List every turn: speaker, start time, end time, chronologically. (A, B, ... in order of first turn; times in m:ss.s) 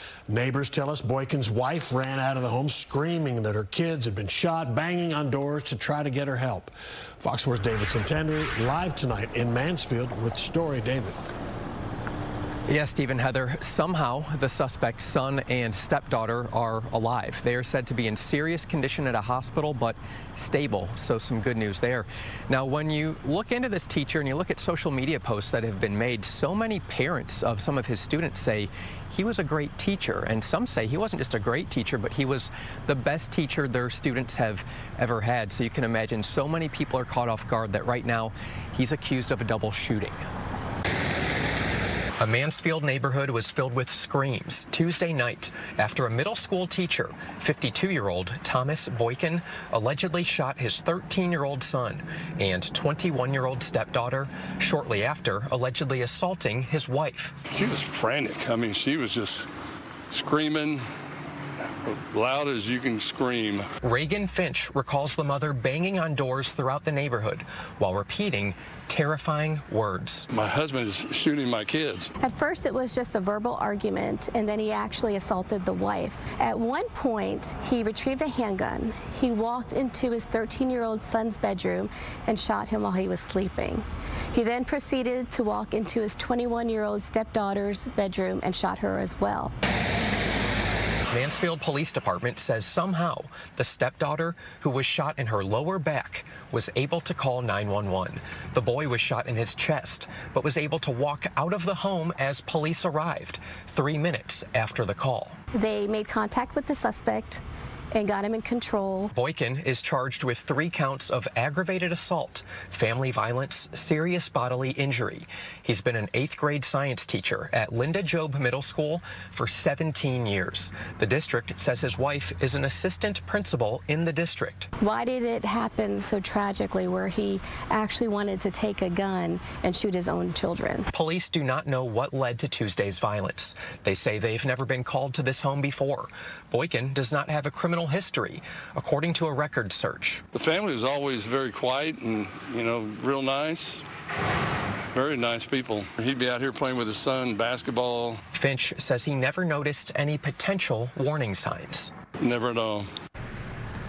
0:00.3-0:11.2 A
0:12.7-0:40.2 B
0:42.2-0:57.4 B
0:57.5-0:59.5 C
1:00.1-1:00.8 C
1:01.8-1:03.6 C
1:03.8-1:10.2 B
1:10.3-1:12.1 C
1:12.2-1:29.5 D
1:31.1-1:45.4 B
1:45.5-1:47.4 D
1:47.9-1:49.1 D
1:49.1-2:04.7 B
2:04.8-2:10.9 D
2:10.9-2:20.2 B
2:20.3-2:23.8 C
2:24.9-2:28.2 C
2:28.3-2:31.9 B
2:32.2-2:32.9 C